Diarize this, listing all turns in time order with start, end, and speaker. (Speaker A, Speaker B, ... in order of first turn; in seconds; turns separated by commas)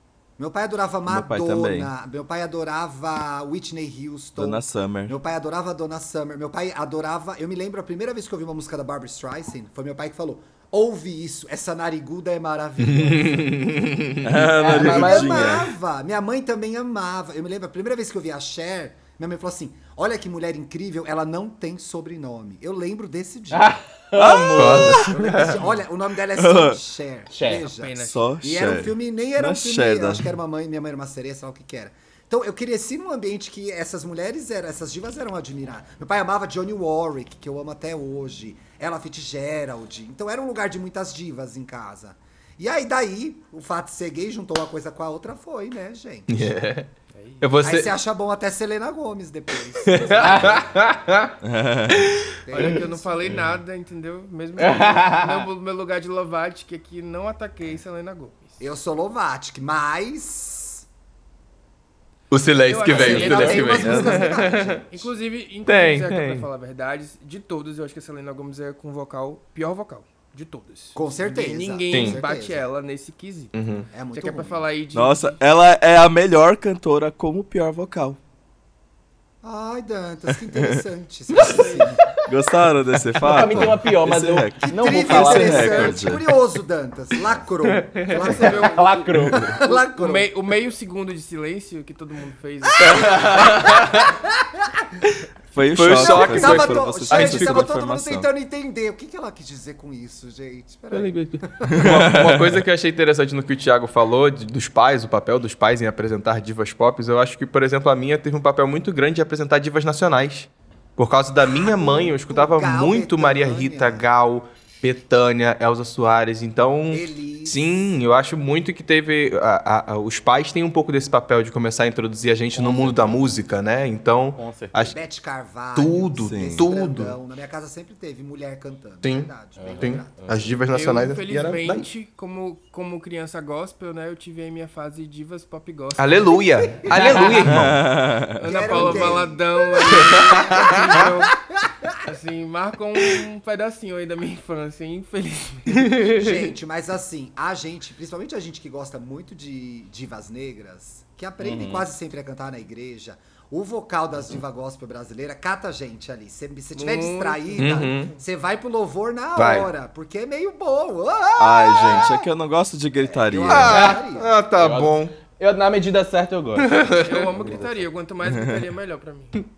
Speaker A: 0.4-13.5, Speaker B: 1.1-1.9, Speaker B: 4.4-5.2, Speaker C: 12.9-14.4, Speaker B: 14.2-15.7, Speaker D: 14.4-15.6, Speaker A: 14.7-23.7, Speaker D: 23.5-25.7, Speaker B: 24.1-25.2, Speaker C: 24.5-25.6, Speaker A: 25.0-46.6, Speaker B: 26.4-26.8, Speaker D: 27.3-27.7, Speaker E: 27.6-28.3, Speaker B: 28.0-30.3, Speaker C: 46.3-47.9, Speaker E: 47.1-47.5, Speaker A: 47.6-50.7, Speaker C: 49.8-51.3, Speaker D: 50.1-50.6, Speaker B: 51.4-52.1, Speaker A: 52.4-53.4, Speaker E: 52.5-58.6, Speaker D: 54.6-55.5, Speaker A: 58.6-60.9, Speaker C: 62.3-64.8, Speaker E: 62.7-73.5, Speaker A: 62.9-65.1, Speaker D: 62.9-63.7, Speaker B: 63.8-64.2, Speaker C: 65.7-66.5, Speaker A: 70.9-72.6, Speaker C: 71.9-72.2, Speaker C: 73.5-73.9, Speaker A: 73.9-74.7, Speaker E: 74.1-75.4, Speaker B: 74.9-78.2, Speaker A: 79.4-82.1, Speaker E: 81.3-81.9, Speaker B: 82.2-86.2, Speaker D: 83.2-85.9, Speaker A: 84.6-90.3, Speaker E: 85.4-86.0, Speaker C: 87.7-88.3, Speaker E: 88.1-88.9, Speaker D: 88.3-89.5, Speaker E: 89.4-93.6, Speaker C: 92.8-94.1, Speaker A: 93.1-94.9, Speaker B: 95.5-98.3, Speaker C: 95.7-97.7, Speaker A: 95.9-101.7, Speaker C: 100.9-124.9, Speaker B: 101.7-102.6, Speaker A: 111.5-114.0, Speaker A: 116.9-118.0, Speaker D: 122.5-123.2, Speaker D: 124.3-124.9, Speaker A: 124.9-130.2, Speaker C: 125.7-127.2, Speaker B: 126.3-126.7, Speaker C: 129.0-131.9, Speaker D: 129.6-130.6, Speaker E: 130.7-136.4, Speaker C: 136.0-137.8, Speaker D: 136.9-137.4, Speaker B: 137.4-139.1, Speaker E: 138.4-141.3, Speaker A: 138.4-142.0, Speaker C: 140.0-140.8, Speaker E: 142.0-146.3, Speaker C: 145.9-146.2, Speaker A: 146.1-162.2, Speaker D: 151.4-151.9, Speaker E: 156.7-157.7, Speaker C: 157.6-158.1, Speaker C: 159.3-159.7, Speaker B: 161.4-163.7, Speaker A: 163.0-164.3, Speaker C: 163.5-165.2, Speaker D: 164.6-166.8, Speaker C: 166.6-167.3, Speaker E: 166.9-169.4, Speaker D: 167.3-167.7, Speaker B: 168.2-168.6